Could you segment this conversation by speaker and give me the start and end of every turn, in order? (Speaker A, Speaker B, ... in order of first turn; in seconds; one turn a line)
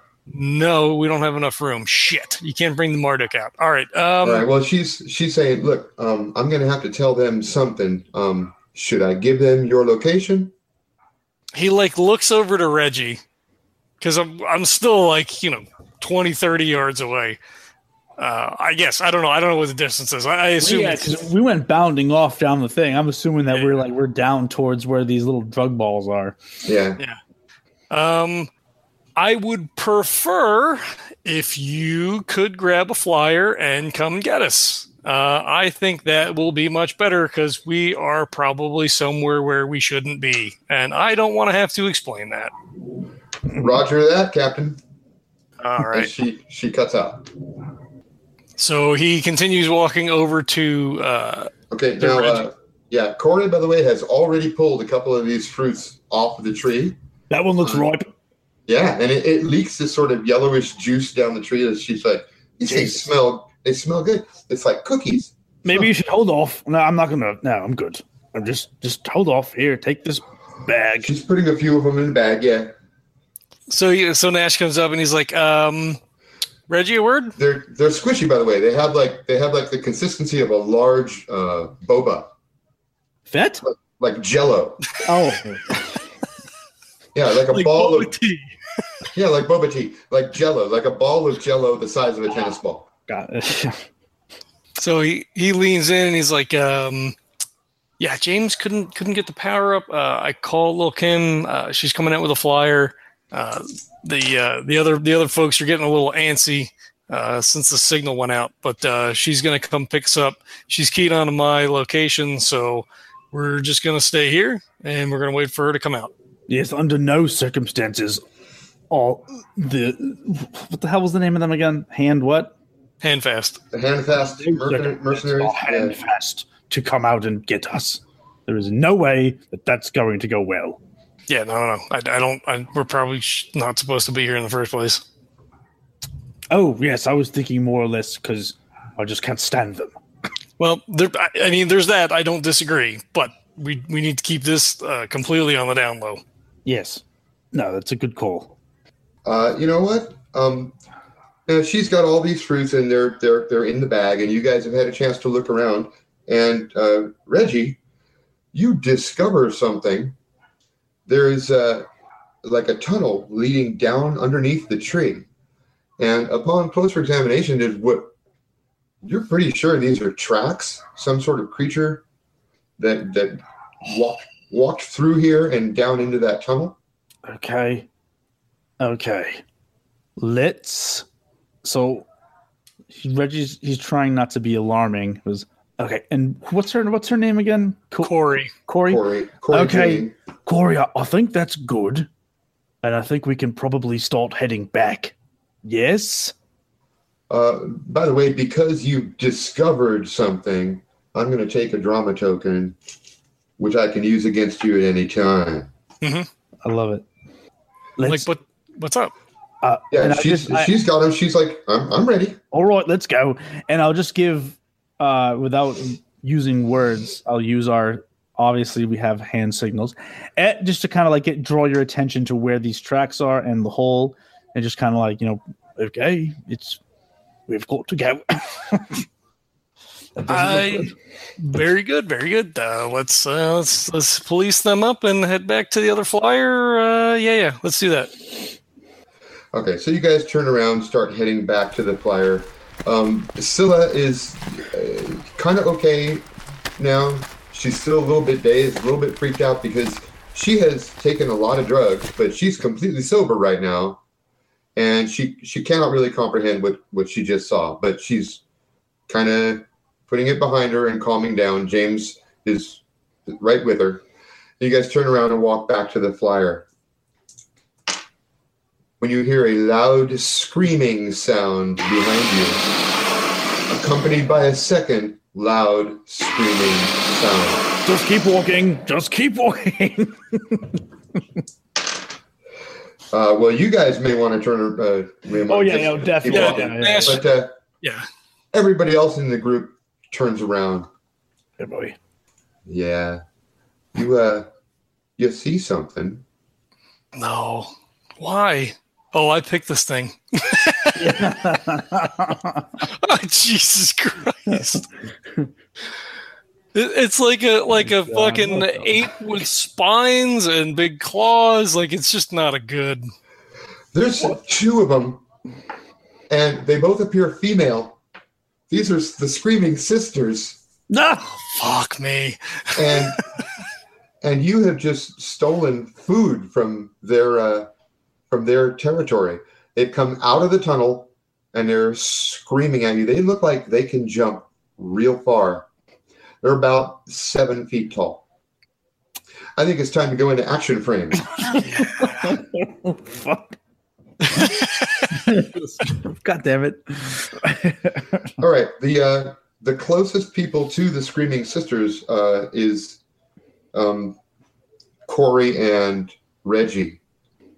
Speaker A: 0.3-4.5
Speaker B: 4.2-10.5
Speaker A: 11.5-13.2
Speaker A: 14.0-17.4
Speaker A: 18.2-21.2
Speaker C: 20.6-26.4
Speaker B: 26.6-27.0
Speaker A: 27.9-28.5
Speaker A: 29.1-42.5
Speaker B: 43.5-44.8
Speaker A: 45.6-46.1
Speaker B: 45.8-47.3
Speaker A: 48.6-52.4
Speaker B: 51.7-57.0
Speaker C: 57.3-58.1
Speaker B: 57.6-57.9
Speaker B: 58.7-65.9
Speaker C: 62.7-63.0
Speaker C: 65.6-71.1
Speaker B: 71.0-72.7
Speaker A: 73.7-76.0
Speaker A: 76.7-77.3
Speaker B: 77.4-82.3
Speaker C: 83.3-83.7
Speaker B: 83.6-84.8
Speaker C: 85.0-86.0
Speaker B: 87.1-88.1
Speaker A: 87.5-88.8
Speaker B: 89.1-92.9
Speaker C: 93.1-93.9
Speaker A: 94.8-97.2
Speaker A: 98.0-116.1
Speaker C: 116.5-118.2
Speaker C: 118.9-122.5
Speaker A: 123.0-123.6
Speaker B: 123.7-126.0
Speaker C: 124.3-130.8
Speaker A: 131.3-135.0
Speaker C: 136.5-139.9
Speaker A: 140.6-146.2
Speaker C: 146.7-148.5
Speaker B: 149.2-150.7
Speaker B: 151.5-157.8
Speaker B: 158.5-160.2
Speaker B: 161.1-161.8
Speaker B: 162.4-165.2
Speaker B: 166.0-168.1
Speaker B: 169.0-172.0
Speaker B: 172.8-176.8
Speaker C: 177.3-177.9
Speaker C: 178.8-179.4
Speaker C: 180.2-181.1
Speaker C: 181.6-182.1
Speaker C: 182.9-188.1
Speaker A: 188.0-188.5
Speaker C: 188.6-192.1
Speaker B: 188.8-190.1
Speaker C: 192.8-196.3
Speaker B: 197.3-202.8
Speaker B: 203.6-205.7
Speaker A: 206.0-206.3
Speaker C: 206.6-207.1
Speaker C: 208.0-208.3
Speaker A: 208.0-209.1
Speaker C: 209.6-210.7
Speaker B: 209.9-212.4
Speaker C: 212.5-226.8
Speaker C: 227.5-229.0
Speaker C: 230.2-230.9
Speaker A: 230.3-238.1
Speaker B: 239.5-254.0
Speaker B: 254.8-258.4
Speaker B: 259.1-264.0
Speaker B: 264.6-266.6
Speaker B: 269.0-272.7
Speaker B: 273.7-277.6
Speaker C: 277.8-280.8
Speaker B: 283.1-287.5
Speaker C: 285.5-287.2
Speaker A: 286.3-287.3
Speaker B: 288.5-290.9
Speaker C: 291.6-291.9
Speaker B: 292.6-293.2
Speaker B: 293.9-294.5
Speaker B: 295.2-296.2
Speaker A: 297.1-301.3
Speaker C: 300.9-302.8
Speaker A: 302.9-304.8
Speaker C: 304.5-304.8
Speaker A: 306.7-313.1
Speaker C: 307.8-308.9
Speaker B: 313.9-315.2
Speaker B: 316.3-318.0
Speaker B: 318.7-320.6
Speaker C: 320.9-321.3
Speaker A: 321.4-323.2
Speaker B: 322.8-323.2
Speaker B: 324.2-327.7
Speaker B: 328.3-335.7
Speaker B: 336.4-338.2
Speaker B: 339.6-341.3
Speaker C: 341.5-343.6
Speaker A: 341.6-342.3
Speaker A: 344.4-345.1
Speaker C: 345.1-348.4
Speaker B: 348.4-353.0
Speaker B: 353.7-354.2
Speaker B: 355.1-357.0